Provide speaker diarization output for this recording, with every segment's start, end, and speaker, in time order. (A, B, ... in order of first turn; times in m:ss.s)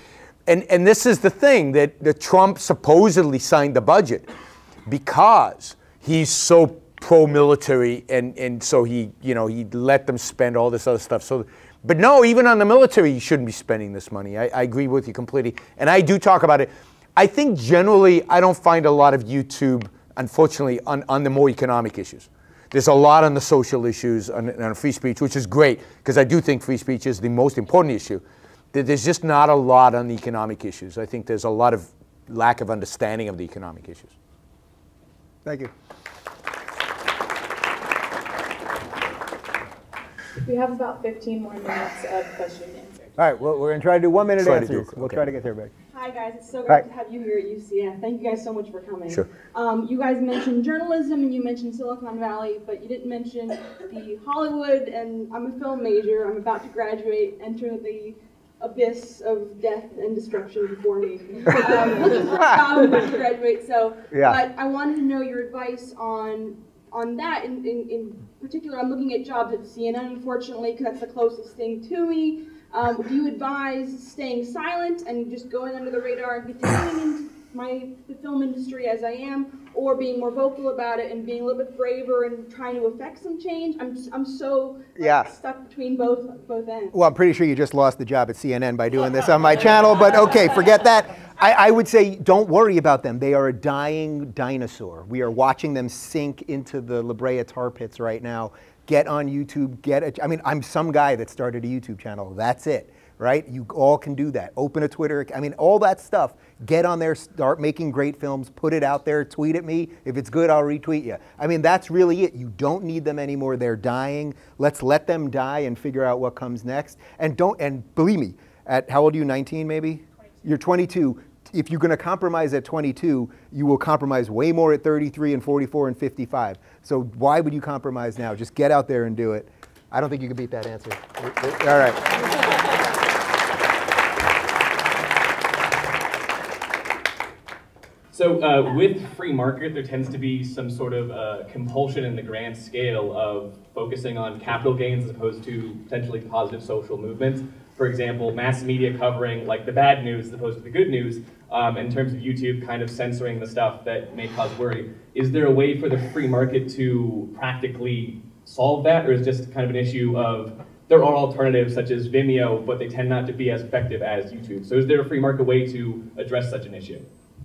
0:00.5-0:04.2 A
0:04.8-0:28.2 A
0:28.7-0:34.1 A
0:35.4-0:35.7 B
0:40.4-0:43.2 C
0:43.2-0:45.7 B
0:44.4-0:45.2 A
0:45.9-1:26.9 D
1:04.1-1:04.4 B
1:25.0-1:25.3 B
1:26.9-2:12.1 B
2:18.1-2:47.0 E